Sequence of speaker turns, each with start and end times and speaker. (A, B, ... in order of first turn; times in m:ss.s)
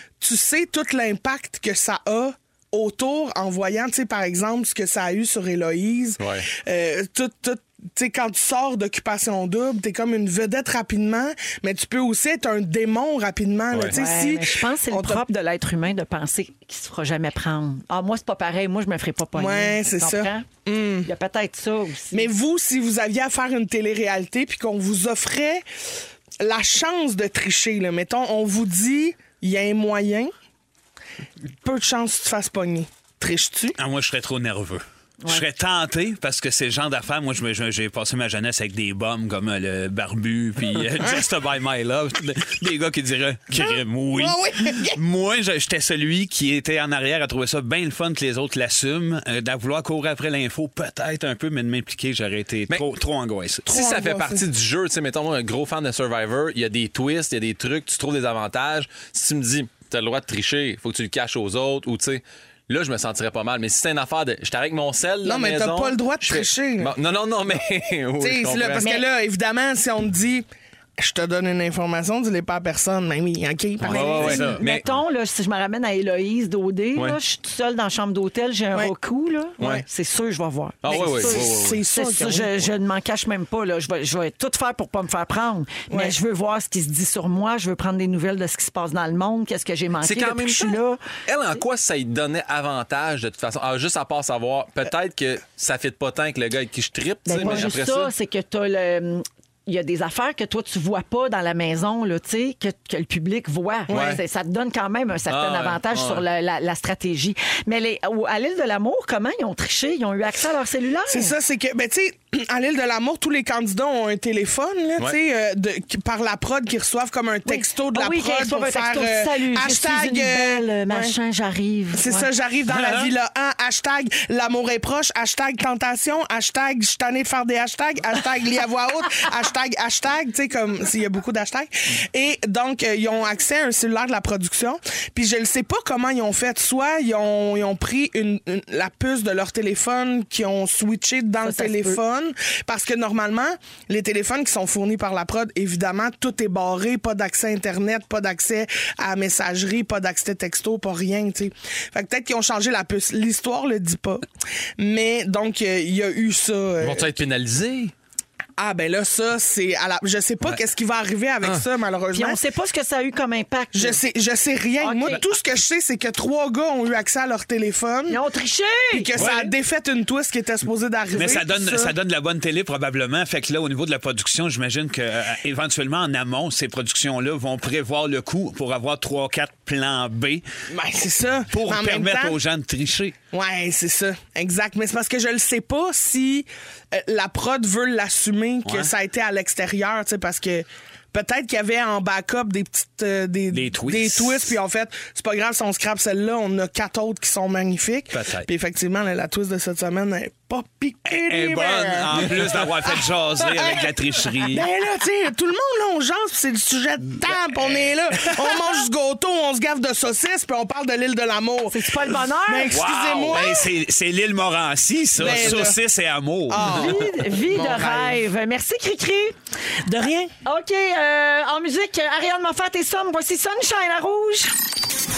0:00.2-0:15.2 A
0:06.2-0:06.5 B
0:13.7-0:14.0 B
0:13.9-0:20.4 C
0:19.4-0:21.1 A
0:21.0-0:22.3 C
0:22.1-0:25.6 A
0:26.4-0:30.3 A
0:31.6-0:33.8 A
0:33.8-0:53.8 D
0:43.5-0:45.0 A
0:53.6-1:09.0 B
0:53.7-0:54.4 A
1:05.2-1:06.9 A
1:08.2-1:10.4 A
1:08.8-1:09.0 C
1:11.0-1:14.6 A
1:13.8-1:14.9 B
1:13.9-1:31.0 C
1:19.6-1:19.8 B
1:20.8-1:21.8 B
1:20.9-1:22.7 A
1:25.9-1:26.2 A
1:30.0-1:38.1 B
1:37.2-1:51.3 C
1:37.4-1:37.7 A
1:43.9-1:44.2 A
1:43.9-1:44.2 B
1:45.3-1:46.2 B
1:51.1-2:01.2 A
1:57.4-2:02.3 C
2:02.0-2:34.2 A
2:02.7-2:03.1 D
2:21.4-2:22.0 C
2:34.8-2:37.2 A
2:36.8-2:37.9 B
2:38.6-2:42.4 A
2:42.1-2:44.0 C
2:43.7-2:48.2 A
2:44.8-2:45.2 C
2:48.1-2:49.1 C
2:48.9-2:51.9 A
2:49.1-2:49.5 D
2:51.1-3:00.4 D
3:00.7-3:02.4 A
3:01.5-3:03.1 D
3:03.3-3:23.9 A
3:08.6-3:08.9 D
3:13.5-3:14.6 D
3:18.1-3:18.5 D
3:21.0-3:24.6 D
3:24.4-3:33.7 A
3:31.7-3:32.8 C
3:32.7-3:33.5 B
3:33.3-3:36.8 D
3:35.2-3:35.8 A
3:36.5-3:38.2 A
3:36.7-3:39.4 C
3:39.9-3:40.3 A
3:40.4-3:44.5 C